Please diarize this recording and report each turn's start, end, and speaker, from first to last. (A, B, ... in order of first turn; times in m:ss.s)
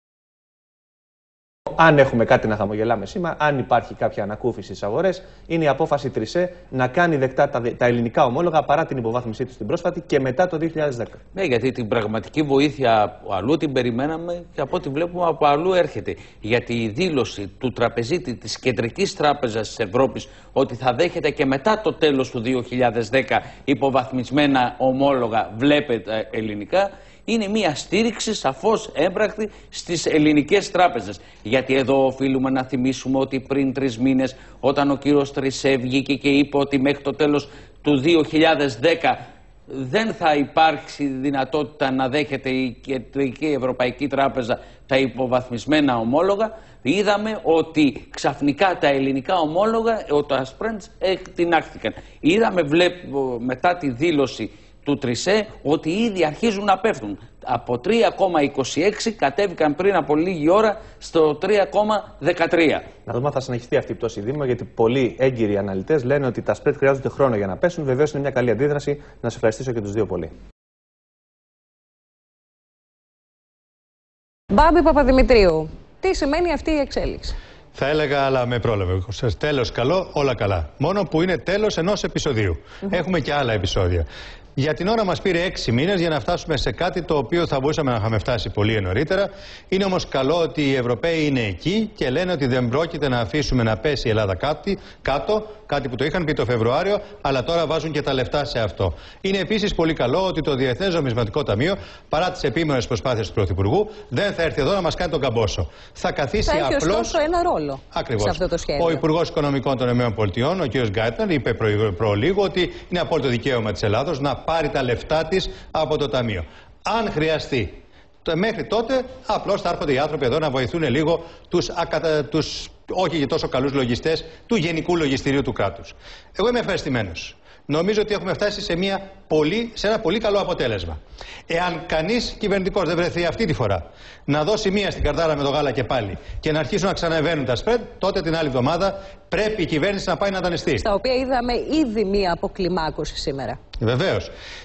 0:01.7-0:11.2 A
0:11.3-0:39.2 B
0:39.7-1:02.8 B
1:03.0-1:10.3 A
1:14.5-1:17.3 C
1:17.7-1:24.0 D
1:24.6-1:47.2 D
1:46.4-1:49.0 C
1:47.9-1:57.7 D
1:58.2-2:11.0 D
2:11.5-2:20.8 D
2:20.8-2:23.6 C
2:23.8-2:24.3 D